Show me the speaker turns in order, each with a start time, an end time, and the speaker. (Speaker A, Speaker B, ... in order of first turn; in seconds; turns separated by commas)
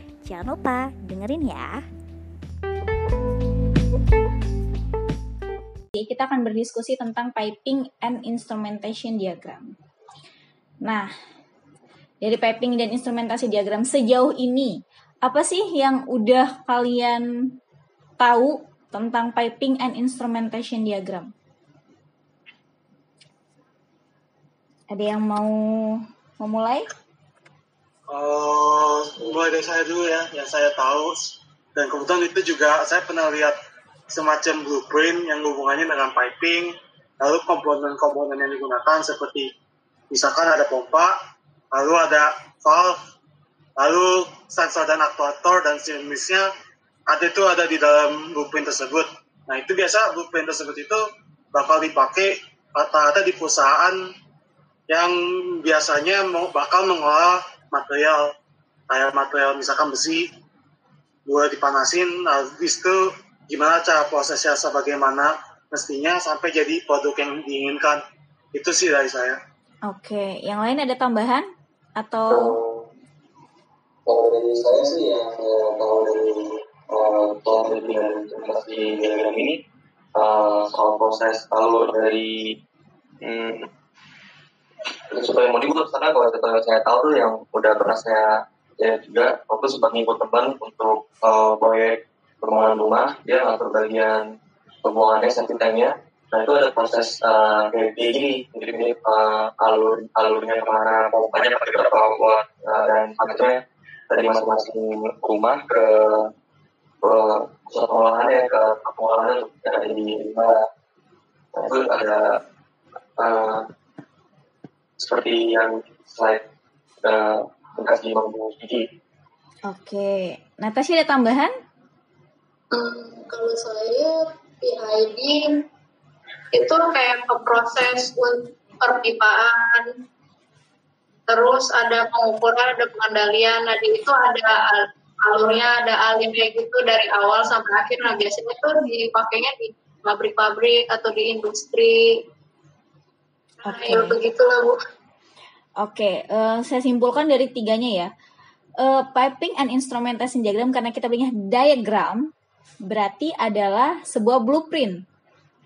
Speaker A: 0.2-1.7, Speaker A: 6.0-9.7, Speaker A: 12.2-17.3, Speaker A: 18.2-21.3, Speaker A: 24.9-26.9, Speaker B: 28.1-33.6, Speaker B: 34.1-39.5, Speaker B: 40.1-41.2, Speaker B: 41.7-43.0, Speaker B: 43.8-46.5, Speaker B: 47.1-51.0, Speaker B: 51.5-54.0, Speaker B: 54.9-58.3, Speaker B: 58.9-60.3, Speaker B: 61.3-68.0, Speaker B: 68.5-69.4, Speaker A: 69.9-71.5, Speaker A: 72.0-72.6, Speaker C: 72.3-72.9, Speaker C: 74.1-79.6, Speaker C: 80.2-82.6, Speaker C: 83.2-83.7, Speaker C: 85.1-94.2, Speaker C: 94.8-106.3, Speaker C: 107.0-110.7, Speaker C: 111.6-112.4, Speaker C: 113.2-113.7, Speaker C: 115.0-116.4, Speaker C: 117.0-118.9, Speaker A: 119.7-121.5, Speaker D: 122.7-125.7, Speaker D: 126.5-129.9, Speaker D: 131.3-142.2, Speaker D: 143.6-144.8, Speaker A: 143.7-144.2, Speaker A: 145.8-148.1, Speaker A: 148.8-152.3, Speaker A: 152.9-155.0